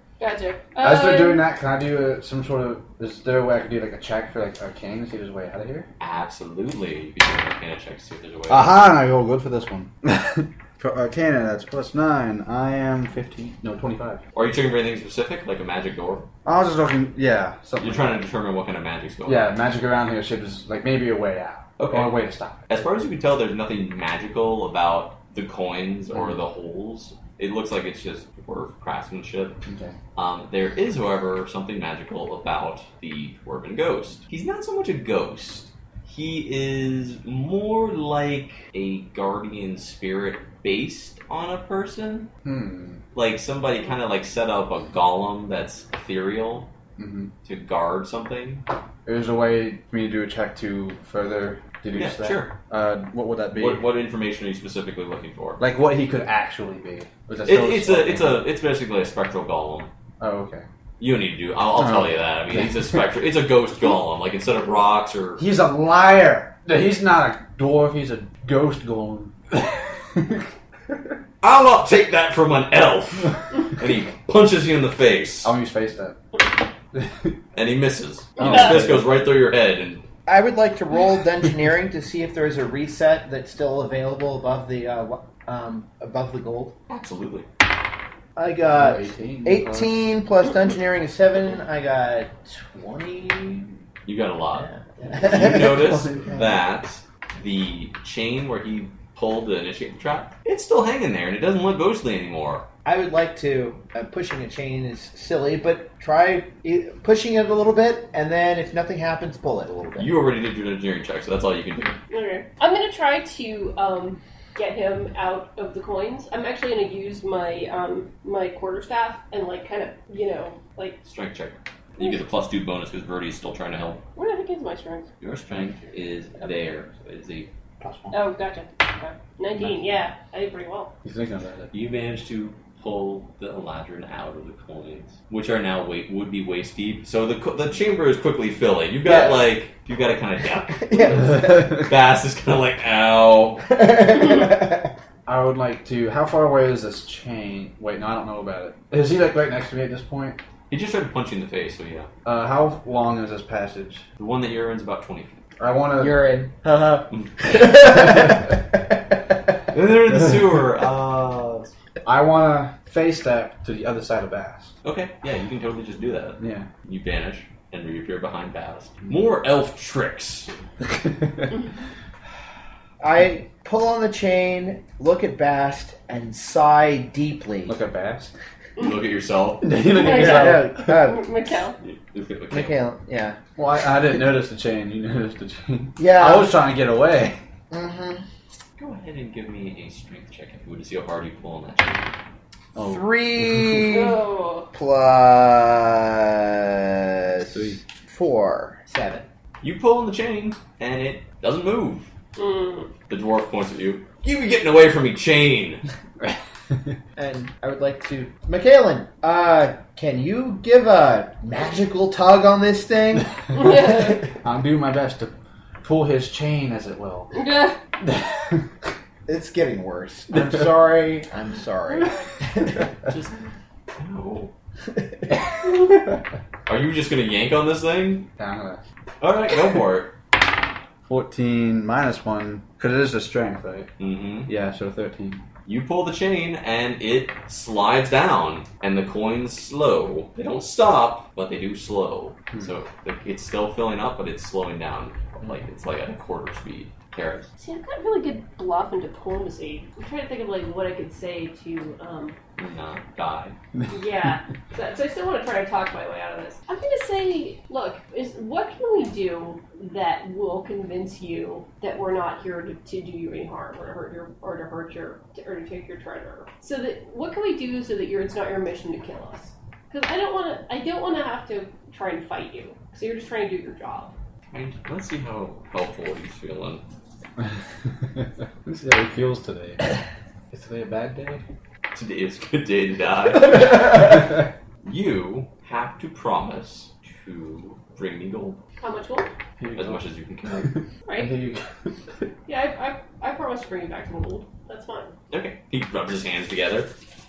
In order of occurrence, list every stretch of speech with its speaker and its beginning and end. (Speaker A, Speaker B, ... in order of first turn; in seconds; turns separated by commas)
Speaker A: 0.2-1.4, Speaker B: 0.8-5.9, Speaker C: 6.0-8.8, Speaker B: 8.5-14.2, Speaker C: 14.3-16.2, Speaker B: 16.4-18.2, Speaker C: 17.8-19.5, Speaker B: 19.2-22.6, Speaker C: 21.8-22.1, Speaker C: 22.7-29.6, Speaker B: 26.1-26.4, Speaker B: 29.6-29.9, Speaker C: 30.1-42.3, Speaker B: 42.4-43.0, Speaker C: 43.1-46.7, Speaker B: 47.0-47.3, Speaker C: 47.4-48.6, Speaker B: 49.0-53.8, Speaker C: 51.9-52.5, Speaker C: 53.5-55.6, Speaker B: 55.6-58.4, Speaker C: 57.4-59.9, Speaker B: 60.2-60.6, Speaker C: 61.0-65.4, Speaker B: 61.8-62.9, Speaker B: 65.4-70.5, Speaker C: 71.4-75.5, Speaker B: 75.4-76.2, Speaker B: 76.9-77.4, Speaker C: 77.5-80.0, Speaker B: 78.4-79.2, Speaker A: 78.4-78.7, Speaker D: 80.2-86.7, Speaker C: 86.9-87.5, Speaker D: 88.3-93.8, Speaker B: 88.7-89.9, Speaker C: 94.0-102.7, Speaker D: 94.5-96.6, Speaker D: 102.8-110.1, Speaker C: 110.0-112.0, Speaker A: 112.1-121.0, Speaker C: 121.0-124.0, Speaker A: 124.1-125.1, Speaker C: 125.2-127.5, Speaker B: 127.8-128.2, Speaker A: 128.1-130.9, Speaker B: 129.6-129.8, Speaker B: 131.0-131.7, Speaker C: 131.7-143.6, Speaker D: 139.1-139.4, Speaker D: 140.7-141.7, Speaker D: 143.7-144.9, Speaker B: 145.2-150.4, Speaker C: 150.7-152.1, Speaker B: 152.2-154.1, Speaker C: 154.2-155.4, Speaker B: 155.6-156.3, Speaker D: 156.0-159.3, Speaker C: 159.7-161.7, Speaker B: 162.0-164.7, Speaker C: 164.8-170.5, Speaker B: 166.4-166.7, Speaker D: 173.0-177.8, Speaker B: 177.7-178.3, Speaker C: 178.8-179.7, Speaker B: 179.6-180.9, Speaker A: 179.8-181.8, Speaker D: 180.0-181.3, Speaker C: 181.8-182.8, Speaker D: 182.5-183.4, Speaker B: 183.6-187.4, Speaker D: 186.0-186.6, Speaker D: 187.7-188.2, Speaker C: 188.8-192.1, Speaker B: 192.7-194.0, Speaker D: 192.8-194.2, Speaker A: 193.9-194.7, Speaker D: 194.7-199.2, Speaker B: 197.5-197.8, Speaker C: 199.6-202.1, Speaker A: 202.3-202.9, Speaker C: 203.1-205.8, Speaker B: 206.2-206.9, Speaker D: 207.2-214.2, Speaker A: 213.5-214.2, Speaker B: 214.4-217.4, Speaker A: 217.3-217.8, Speaker B: 218.0-218.6, Speaker D: 219.3-222.9, Speaker C: 223.1-223.4, Speaker C: 223.9-224.5, Speaker C: 226.7-228.3, Speaker B: 228.4-228.8, Speaker C: 229.2-230.1, Speaker B: 231.0-233.9, Speaker C: 234.0-234.5, Speaker B: 234.4-235.4, Speaker C: 235.7-247.5, Speaker A: 247.6-252.4, Speaker C: 252.6-253.5, Speaker A: 253.9-274.1, Speaker C: 274.5-276.8, Speaker B: 278.1-279.9, Speaker B: 280.5-281.4, Speaker C: 281.9-288.6, Speaker A: 288.8-289.3, Speaker B: 289.6-290.0, Speaker C: 289.7-290.8, Speaker B: 290.6-291.7, Speaker A: 291.1-291.4, Speaker A: 292.5-295.1, Speaker C: 295.3-296.9